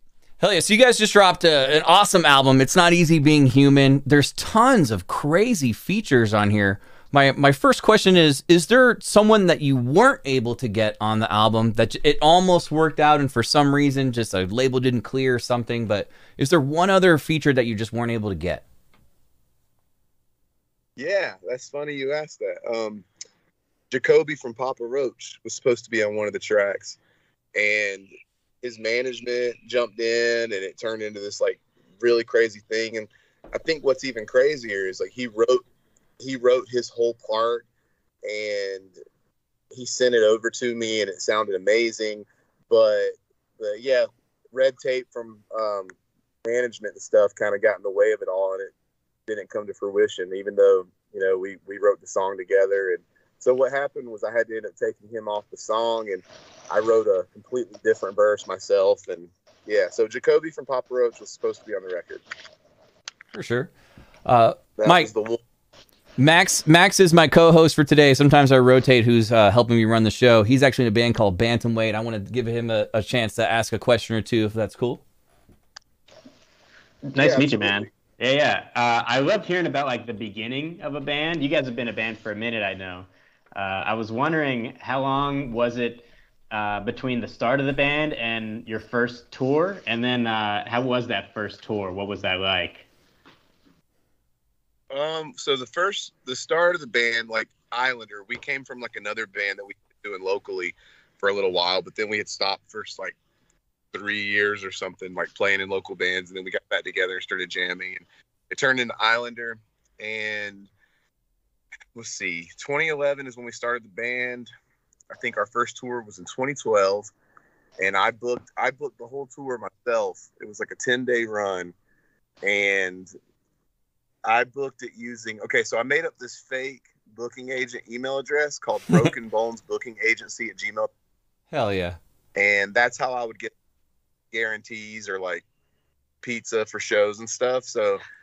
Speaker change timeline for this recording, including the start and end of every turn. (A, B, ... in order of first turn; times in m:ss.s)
0:00.4-0:18.6 A
0:21.0-0:23.1 B
0:23.9-0:27.0 B
0:27.6-0:35.6 B
0:36.2-0:37.7 B
0:38.2-0:38.9 B
0:39.7-0:48.7 B
0:49.3-1:02.2 B
1:03.3-1:03.7 A
1:04.2-1:05.1 A
1:04.8-1:05.4 B
1:06.2-1:15.0 A
1:17.1-1:32.9 C
1:17.2-1:17.9 B
1:34.9-1:43.2 B
1:43.9-1:50.7 B
1:52.0-1:54.5 B
1:55.1-1:57.1 B
1:57.8-2:01.7 B
2:02.4-2:03.1 B
2:04.2-2:10.9 B
2:11.5-2:12.0 A
2:12.4-2:13.5 B
2:14.3-2:15.4 B
2:16.2-2:18.0 B